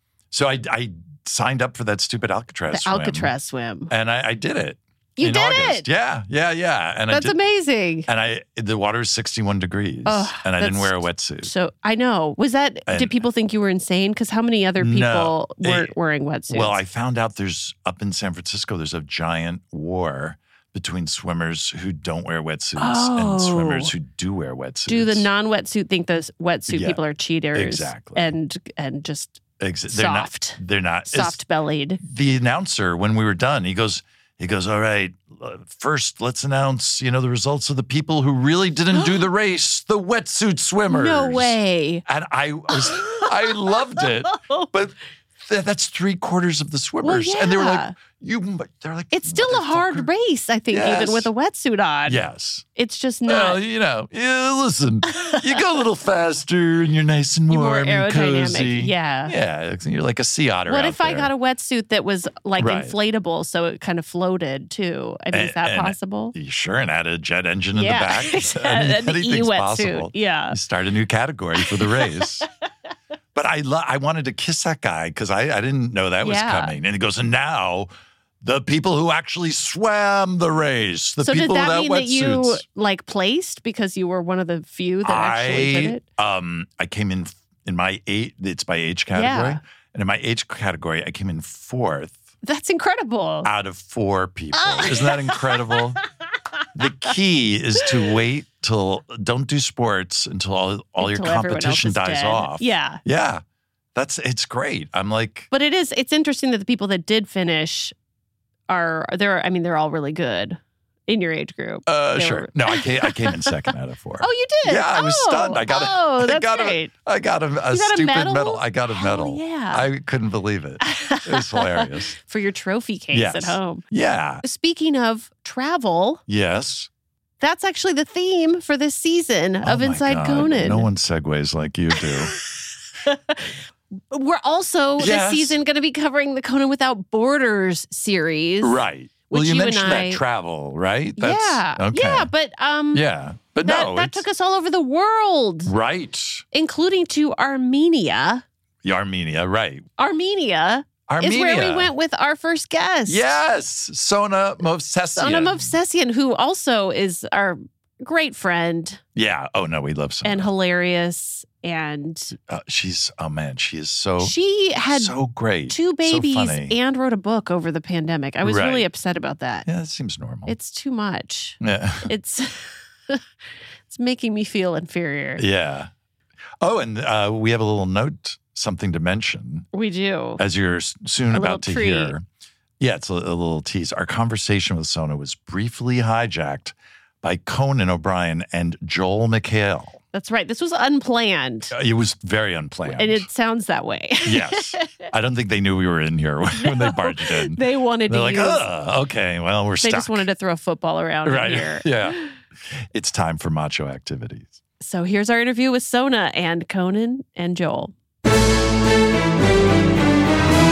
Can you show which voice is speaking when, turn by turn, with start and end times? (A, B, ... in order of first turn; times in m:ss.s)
0:00.3-0:03.3 A
0:02.7-0:03.9 B
0:03.9-0:07.4 A
0:05.2-0:05.9 B
0:07.1-0:08.1 B
0:08.1-0:11.5 A
0:10.0-0:16.8 B
0:12.9-0:13.2 A
0:14.8-0:15.9 A
0:16.5-0:25.3 A
0:22.8-0:23.9 B
0:24.9-0:32.0 B
0:26.7-0:27.0 A
0:27.5-0:28.3 A
0:29.6-0:31.4 A
0:32.0-0:44.9 A
0:38.9-0:39.2 B
0:40.9-0:42.0 B
0:42.8-0:43.2 B
0:45.4-0:50.1 A
0:47.0-0:47.9 B
0:49.1-0:52.2 B
0:50.7-0:51.3 A
0:52.0-0:52.6 A
0:52.7-0:53.6 B
0:53.2-1:01.3 A
0:57.5-0:59.4 B
1:00.7-1:06.3 B
1:02.6-1:02.9 A
1:05.3-1:12.5 A
1:07.7-1:10.6 B
1:11.6-1:12.1 B
1:13.3-1:17.9 A
1:16.2-1:16.7 B
1:18.4-1:22.6 A
1:21.2-1:26.0 B
1:25.0-1:32.2 A
1:29.1-1:29.6 B
1:32.4-1:33.5 B
1:33.4-1:36.0 A
1:34.6-1:35.8 B
1:36.7-1:43.4 A
1:41.0-1:43.0 B
1:43.9-1:45.5 A
1:45.5-1:47.9 B
1:48.7-1:53.5 B
1:51.9-2:02.1 A
1:54.2-1:56.9 B
1:57.7-1:59.8 B
2:00.8-2:03.8 B
2:03.1-2:04.4 A
2:04.4-2:06.2 B
2:06.3-2:06.9 A
2:07.4-2:10.9 B
2:09.6-2:12.3 A
2:13.1-2:13.5 B
2:14.1-2:18.8 B
2:15.0-2:15.6 A
2:18.6-2:22.3 A
2:19.3-2:20.2 B
2:21.2-2:23.0 B
2:22.9-2:24.2 A
2:23.6-2:25.7 B
2:25.6-2:26.4 A
2:26.5-2:28.4 B
2:28.8-2:29.8 A
2:30.0-2:33.2 B
2:31.1-2:31.9 A
2:33.1-2:35.7 A
2:35.2-2:39.0 B
2:39.1-2:40.5 A
2:40.2-2:42.4 B
2:42.5-2:44.3 A
2:44.2-2:45.1 B
2:44.9-2:46.8 A
2:45.7-2:49.7 B
2:48.4-2:48.9 A
2:49.6-2:50.5 A
2:50.4-2:53.2 B
2:51.6-2:52.1 A
2:53.9-2:55.4 B
2:55.4-2:55.9 A
2:56.6-2:59.7 A
2:59.7-3:00.4 B
3:00.4-3:02.2 A
3:01.3-3:02.1 B
3:02.8-3:10.0 A
3:10.1-3:11.7 B
3:11.7-3:13.3 A
3:12.8-3:15.0 B
3:14.2-3:20.3 A
3:16.6-3:18.6 B
3:19.8-3:22.3 B
3:21.2-3:22.2 A
3:22.7-3:24.6 A
3:24.8-3:27.9 B